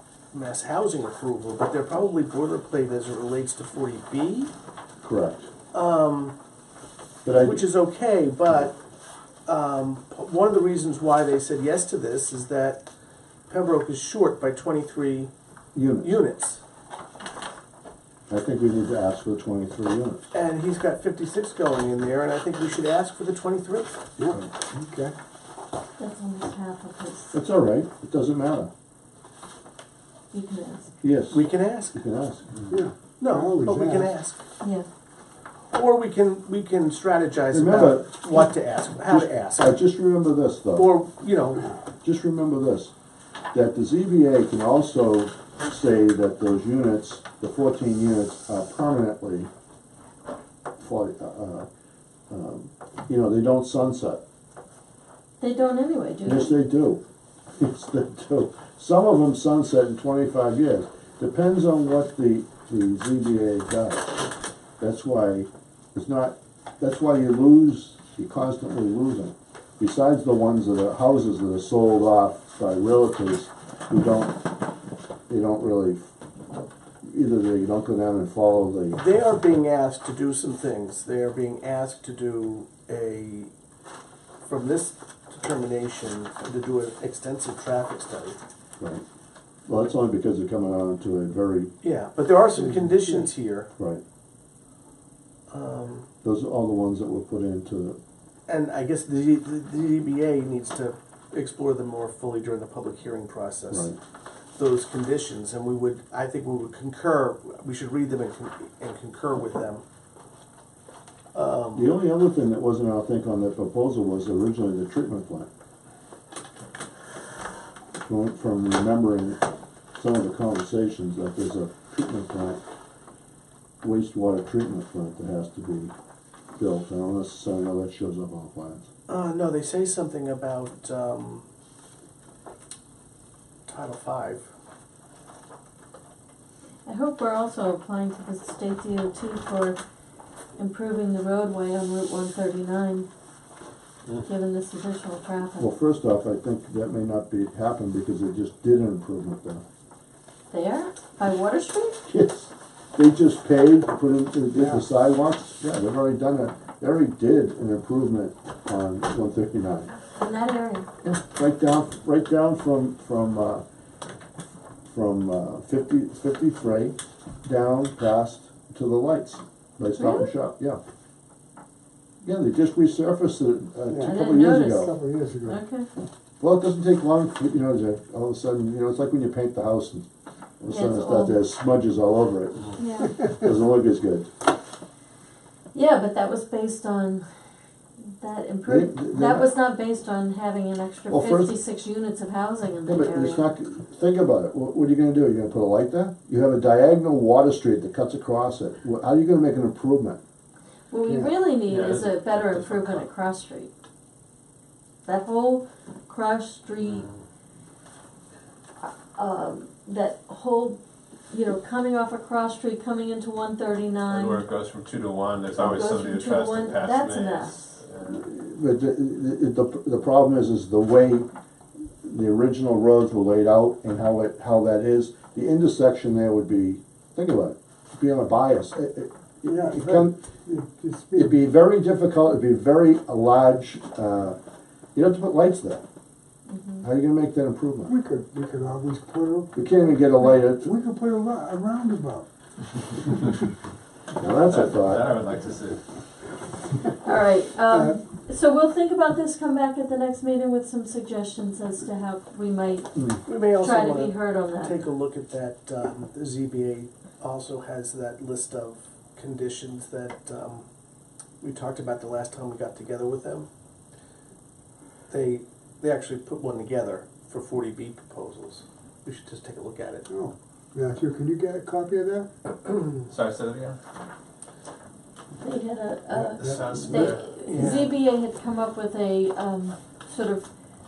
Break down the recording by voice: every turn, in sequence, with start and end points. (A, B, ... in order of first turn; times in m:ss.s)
0:00.3-0:04.5 A
0:05.0-0:05.5 B
0:05.7-0:06.3 A
0:07.2-0:07.6 B
0:07.3-0:08.8 A
0:09.5-0:12.9 A
0:13.5-0:15.3 A
0:15.7-0:16.2 B
0:16.0-0:16.6 A
0:18.3-0:20.2 B
0:20.3-0:24.0 A
0:24.2-0:25.1 C
0:26.0-0:27.3 D
0:27.3-0:28.7 B
0:30.3-0:30.9 D
0:31.0-0:32.5 B
0:31.3-0:32.0 A
0:32.7-0:34.1 C
0:33.2-0:34.4 A
0:34.6-0:34.8 D
0:35.7-0:39.8 A
0:37.5-0:38.2 B
0:39.1-0:40.9 B
0:40.7-0:41.7 A
0:42.0-0:42.9 B
0:43.5-0:49.5 B
0:50.8-0:51.7 B
0:52.3-0:54.2 B
0:55.4-0:56.6 D
0:56.2-0:57.0 B
0:57.6-1:04.2 B
1:04.8-1:14.4 B
1:15.3-1:16.1 B
1:17.0-1:19.0 B
1:18.9-1:23.5 A
1:24.4-1:28.4 A
1:28.8-1:29.0 B
1:29.7-1:31.7 B
1:31.8-1:33.7 A
1:35.5-1:36.1 A
1:36.2-1:38.0 B
1:38.5-1:43.9 A
1:43.7-1:44.0 B
1:44.6-1:49.8 A
1:51.3-1:51.9 A
1:51.7-1:55.5 B
1:58.0-1:59.4 B
2:00.0-2:02.6 B
2:03.8-2:05.9 B
2:06.5-2:08.9 B
2:09.1-2:11.4 A
2:13.6-2:14.5 A
2:16.8-2:19.8 D
2:20.6-2:23.1 D
2:24.2-2:25.7 D
2:25.6-2:29.6 B
2:30.5-2:32.0 D
2:32.1-2:39.9 B
2:34.5-2:34.8 C
2:40.2-2:40.9 D
2:41.0-2:43.6 B
2:44.9-2:50.8 B
2:49.8-2:50.3 D
2:52.2-2:54.9 B
2:53.9-2:55.6 C
2:54.0-2:54.9 D
2:55.4-2:55.9 D
2:56.4-3:00.1 B
3:00.6-3:04.3 B
3:00.7-3:01.4 D
3:02.8-3:03.2 D
3:05.7-3:07.2 D
3:08.0-3:13.4 D
3:08.6-3:09.5 B
3:11.1-3:11.5 B
3:12.8-3:20.2 B
3:20.9-3:23.7 D
3:21.0-3:21.4 C
3:21.5-3:23.1 E
3:25.0-3:27.1 D
3:28.8-3:30.8 D
3:31.3-3:34.4 D
3:34.0-3:38.2 E
3:35.5-3:37.7 D
3:38.0-3:41.3 B
3:42.0-3:50.1 B
3:49.5-3:51.4 C
3:51.1-3:54.4 B
3:54.9-3:55.8 B
3:56.5-3:56.8 D
3:56.8-3:57.9 B
3:57.8-4:02.3 C
3:59.5-4:00.7 B
4:03.0-4:03.4 C
4:04.1-4:05.1 B
4:04.4-4:05.8 E
4:07.0-4:14.8 D
4:07.7-4:07.9 C
4:12.9-4:13.2 B
4:13.2-4:20.6 A
4:21.4-4:23.5 A
4:25.1-4:30.1 A
4:30.1-4:32.3 C
4:33.1-4:33.8 E
4:35.4-4:40.5 D
4:36.4-4:37.1 C
4:36.4-4:37.5 E
4:37.4-4:37.9 A